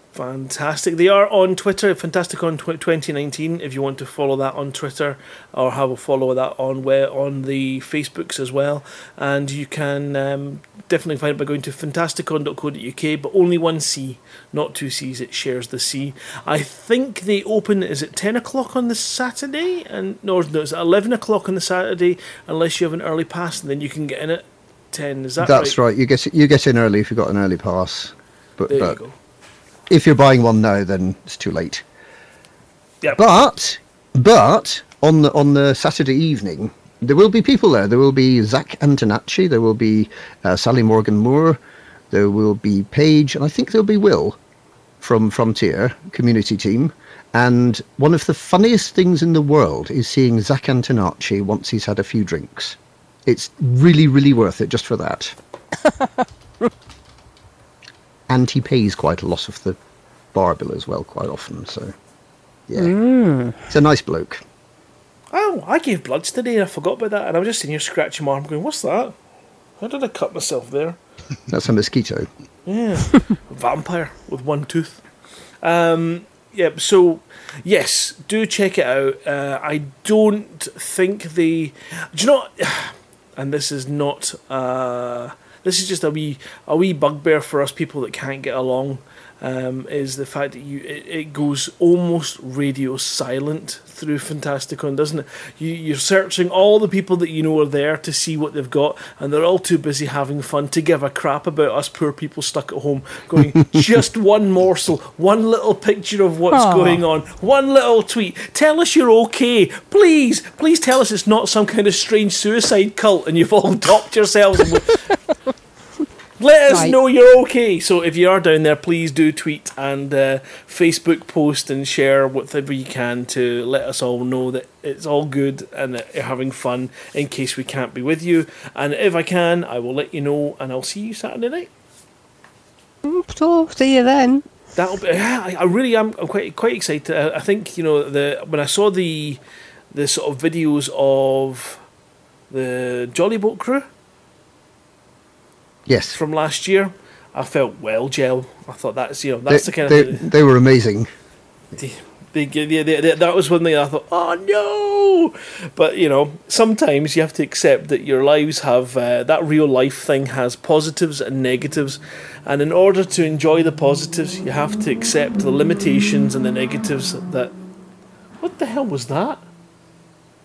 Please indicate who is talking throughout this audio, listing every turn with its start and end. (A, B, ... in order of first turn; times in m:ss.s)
0:00.1-0:25.8 A
0:25.4-0:29.0 B
0:28.7-0:29.1 A
0:29.9-0:31.8 B
0:33.2-0:41.6 B
0:42.1-0:44.4 B
0:45.0-0:55.4 B
0:58.3-0:59.8 B
1:00.3-1:01.9 B
1:02.7-1:02.9 B
1:02.8-1:03.5 C
1:03.7-1:04.4 B
1:05.3-1:09.1 A
1:09.8-1:11.0 A
1:11.5-1:12.3 B
1:12.6-1:15.0 A
1:15.6-1:55.0 A
1:46.5-1:47.0 C
1:56.4-2:11.7 A
1:56.7-1:56.9 C
2:13.0-2:14.4 C
2:14.8-2:19.4 A
2:19.9-2:21.8 A
2:22.5-2:23.9 A
2:25.9-2:26.2 B
2:26.1-2:30.2 A
2:29.5-2:31.1 B
2:31.8-2:47.5 A
2:48.4-2:49.4 A